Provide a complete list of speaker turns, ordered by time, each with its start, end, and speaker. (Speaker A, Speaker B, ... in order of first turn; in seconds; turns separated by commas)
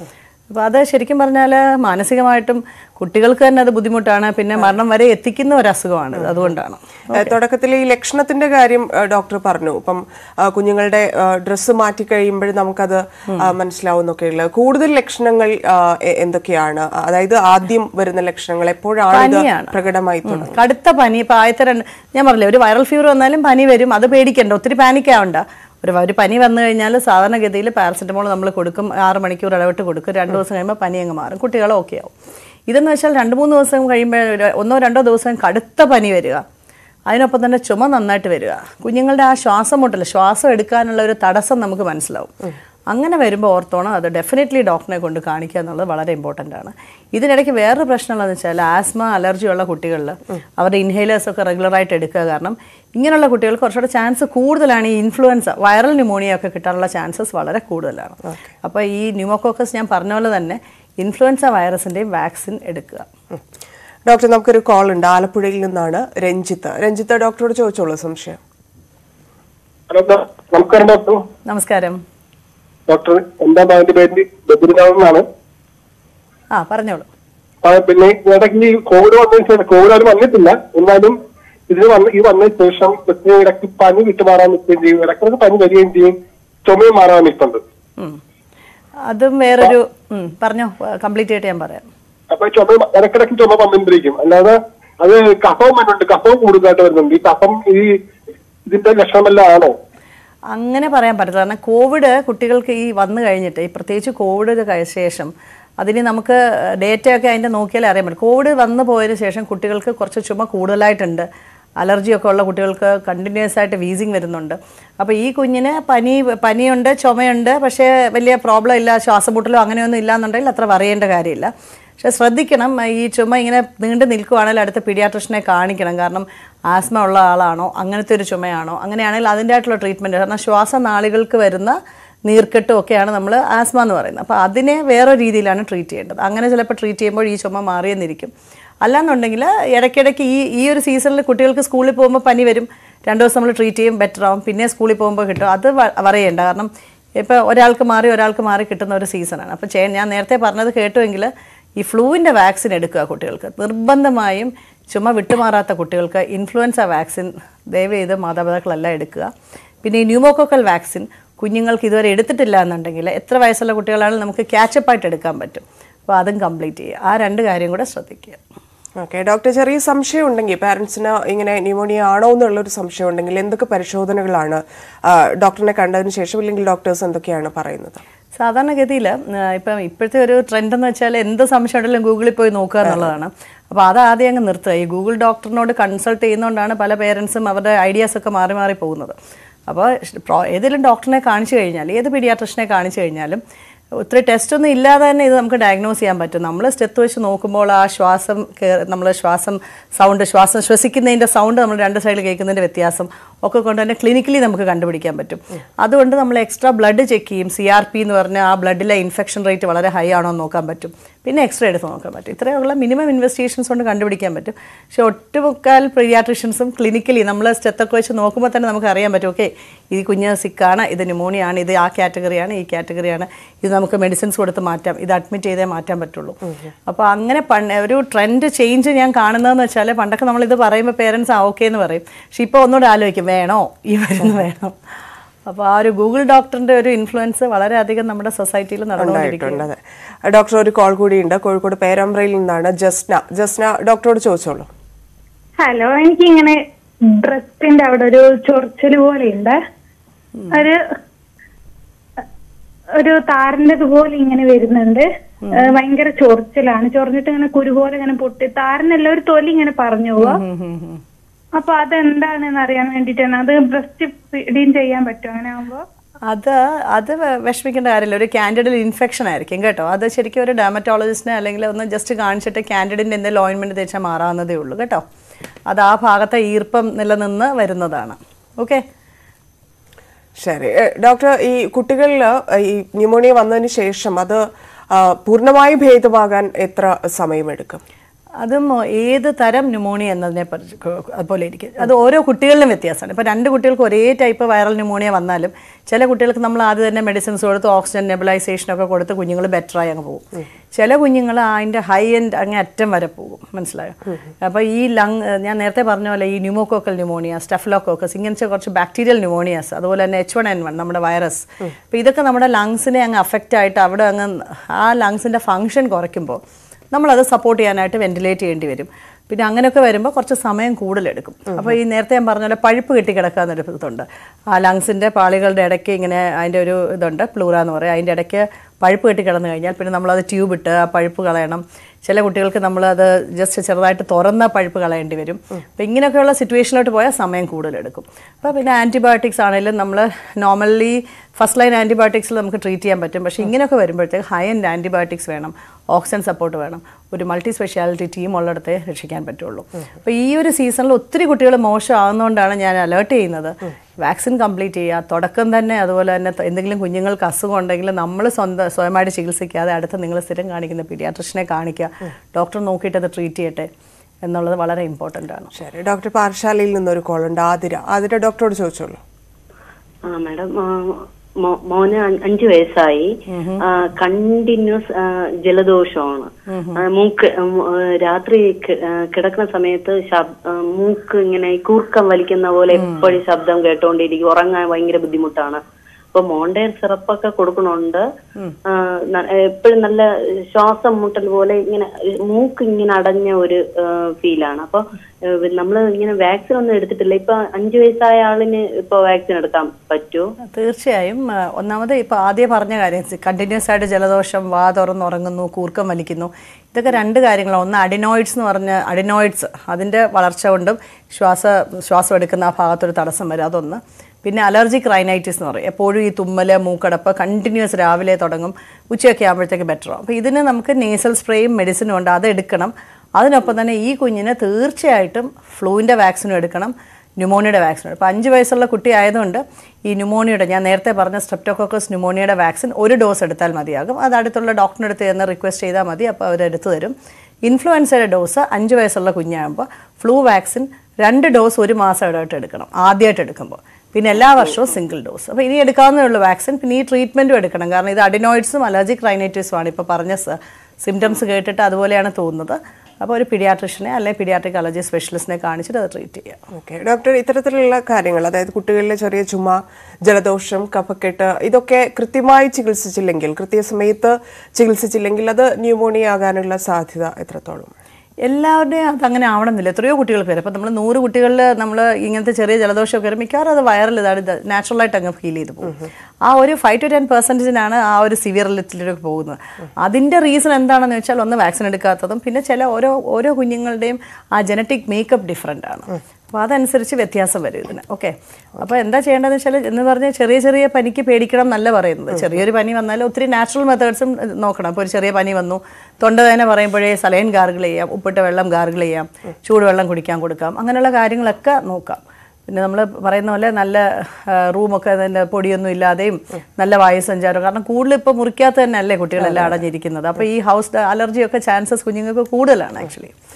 Speaker A: 0.5-7.3, Speaker B: 7.1-20.5, Speaker A: 19.1-19.7, Speaker A: 20.2-32.1, Speaker A: 32.7-36.4, Speaker A: 37.1-42.3, Speaker A: 42.9-63.1, Speaker B: 64.1-68.4, Speaker C: 69.9-71.2, Speaker A: 71.5-72.0, Speaker C: 72.9-75.2, Speaker A: 76.5-77.1, Speaker C: 77.6-81.2, Speaker C: 81.7-86.1, Speaker C: 86.7-87.6, Speaker A: 89.1-91.8, Speaker C: 92.3-97.9, Speaker C: 98.7-99.7, Speaker A: 100.5-111.2, Speaker A: 111.8-138.3, Speaker A: 138.8-159.3, Speaker A: 159.8-168.4, Speaker B: 169.0-178.0, Speaker A: 178.4-189.2, Speaker A: 189.7-193.4, Speaker A: 194.0-234.7, Speaker A: 235.5-239.7, Speaker B: 239.0-244.7, Speaker D: 245.6-246.6, Speaker D: 247.1-249.6, Speaker A: 250.3-250.6, Speaker D: 250.5-250.8, Speaker D: 253.0-260.4, Speaker A: 255.4-255.7, Speaker A: 260.2-261.0, Speaker D: 261.6-265.8, Speaker A: 266.3-275.0, Speaker A: 275.7-278.8, Speaker B: 280.4-287.8, Speaker A: 288.4-300.2, Speaker A: 300.7-316.4, Speaker A: 316.9-363.7, Speaker A: 364.2-365.5, Speaker B: 365.5-369.0, Speaker E: 370.1-373.1, Speaker A: 373.3-373.6, Speaker E: 374.0-374.8, Speaker E: 375.4-376.3, Speaker A: 376.5-376.8, Speaker E: 376.8-385.6, Speaker A: 382.7-383.1, Speaker E: 386.1-388.0, Speaker E: 388.7-394.8, Speaker E: 395.4-400.3, Speaker A: 400.5-436.9, Speaker A: 437.4-456.4, Speaker B: 456.6-467.7, Speaker A: 468.2-513.1